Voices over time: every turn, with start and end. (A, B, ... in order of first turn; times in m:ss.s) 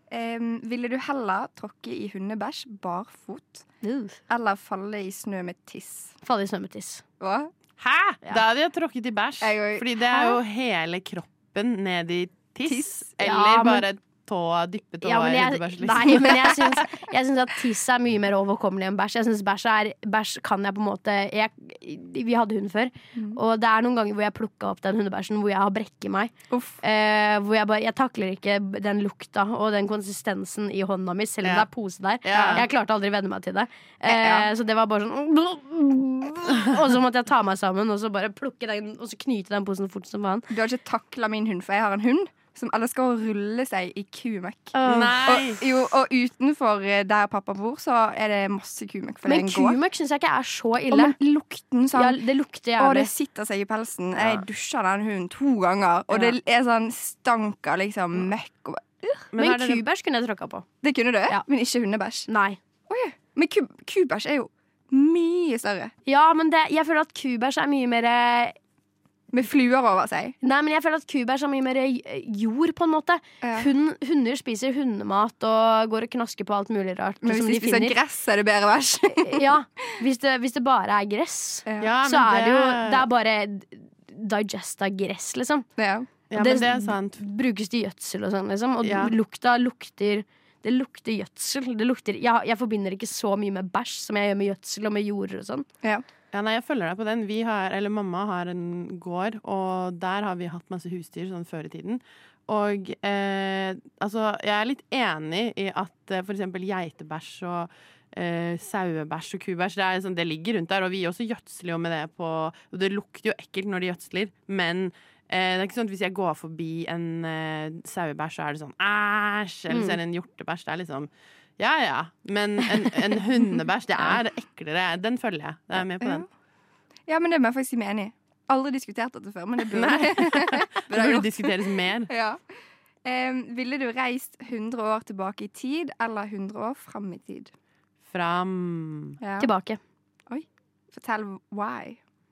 0:00.1-0:03.7 A
0:03.8-0:04.2 B
0:04.3-0:06.2 A
0:06.2-0:07.0 B
0:07.2-0:07.5 A
0:07.8-0:16.6 C
0:09.4-0:10.4 A
0:12.7-0:13.1 A
0:13.2-0:13.8 B
0:15.0-0:40.5 B
0:26.5-0:26.8 A
0:32.2-0:32.7 C
0:32.3-0:32.6 A
0:34.1-0:34.5 A
0:40.5-0:49.8 A
0:44.7-0:45.3 B
0:44.9-0:45.6 C
0:49.3-0:51.2 B
0:50.9-0:52.2 A
0:51.9-0:53.1 B
0:52.8-0:59.3 A
0:59.3-0:59.8 C
0:59.4-1:00.6 B
1:00.8-1:02.3 A
1:02.3-1:02.6 B
1:02.9-1:05.9 A
1:06.1-1:08.6 B
1:09.3-1:10.4 A
1:10.4-1:18.0 B
1:13.4-1:13.7 A
1:17.2-1:19.5 A
1:19.2-1:25.7 B
1:21.7-1:21.9 A
1:21.8-1:23.1 C
1:25.8-1:26.1 A
1:26.3-1:27.2 C
1:26.3-1:35.7 B
1:28.8-1:29.2 C
1:36.3-2:06.3 C
1:59.7-2:00.0 B
2:06.0-2:06.3 A
2:07.1-2:12.4 A
2:09.7-2:12.1 C
2:13.0-2:17.5 A
2:18.1-2:19.2 C
2:19.2-2:19.5 A
2:19.4-2:19.8 B
2:20.3-2:22.0 A